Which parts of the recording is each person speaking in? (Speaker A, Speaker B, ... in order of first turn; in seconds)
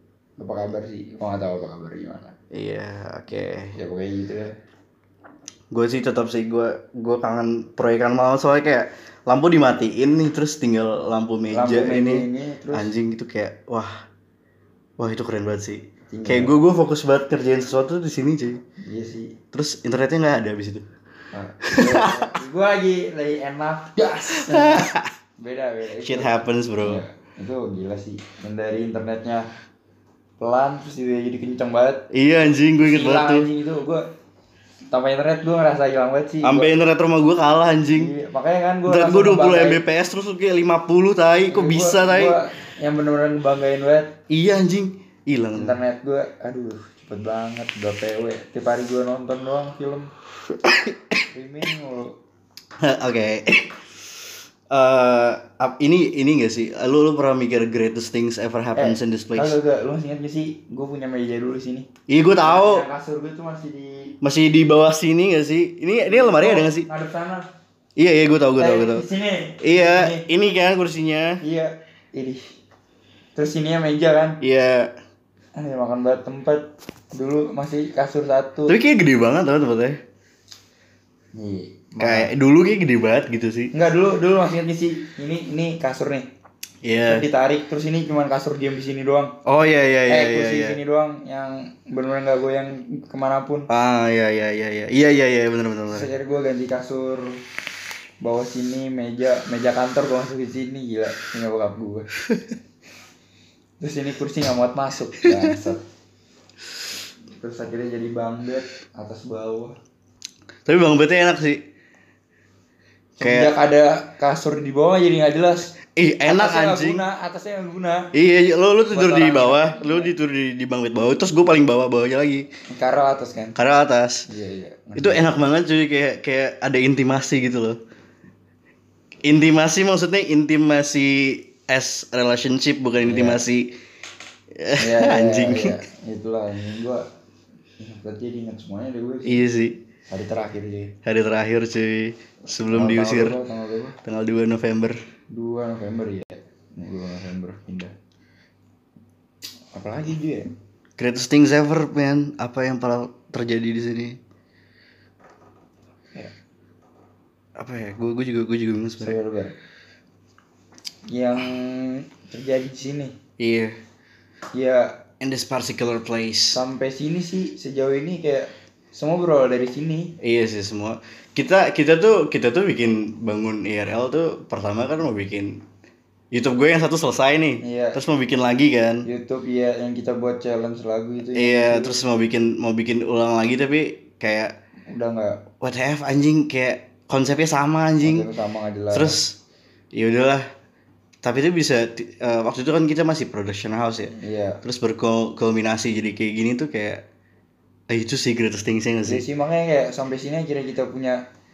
Speaker A: 0.4-2.3, 3.7-4.5, 11.5-12.9, 16.1-16.5, 18.8-19.4, 21.3-29.4, 30.4-32.1, 32.8-34.0, 34.9-36.7, 37.9-39.8, 41.5-44.1, 45.5-50.1, 51.3-52.2, 58.8-61.9, 62.4-64.2, 66.0-67.5, 68.6-70.2, 71.4-72.4, 73.3-74.4, 75.5-78.8, 81.3-82.3, 83.7-86.3, 87.1-89.3, 90.1-93.7, 95.9-97.4, 98.2-102.1, 103.8-105.8, 107.4-109.8, 113.2-115.7, 116.2-118.1, 118.9-120.1, 122.7-123.6, 124.3-125.3, 133.0-133.4, 134.8-137.0, 137.8-139.4, 140.1-140.9, 142.7-144.0, 145.3-147.9, 149.7-150.5, 159.0-159.5, 161.1-163.2, 164.5-165.0, 166.5-170.1, 177.6-178.0, 179.0-182.0, 184.9-185.4, 188.0-189.2, 194.1-194.6, 199.1-201.2
Speaker B: 2.5-3.7, 5.7-14.0, 15.0-18.6, 19.5-20.9, 21.7-22.3, 24.3-25.1, 26.0-27.0, 32.1-33.5, 36.4-38.1, 38.9-42.4, 44.3-45.8, 50.6-51.2, 52.8-53.8, 54.7-59.5, 62.1-62.8, 64.2-66.9, 68.0-69.0, 69.6-71.4, 74.4-74.9, 78.7-80.0, 82.0-83.7, 86.8-87.2, 89.5-90.8, 93.7-96.1, 105.2-105.5, 110.7-111.6, 113.2-113.5, 115.9-117.0, 118.1-122.5, 123.5-124.2, 125.0-127.8, 129.2-133.7, 134.5-135.7, 139.2-139.8, 141.0-143.3, 144.0-145.0, 151.0-154.2, 157.6-159.2, 163.4-163.8, 165.2-166.6, 170.2-175.6, 176.3-179.1, 181.3-184.5, 185.6-188.2, 188.9-189.4, 189.9-190.4, 191.2-197.0, 197.9-199.2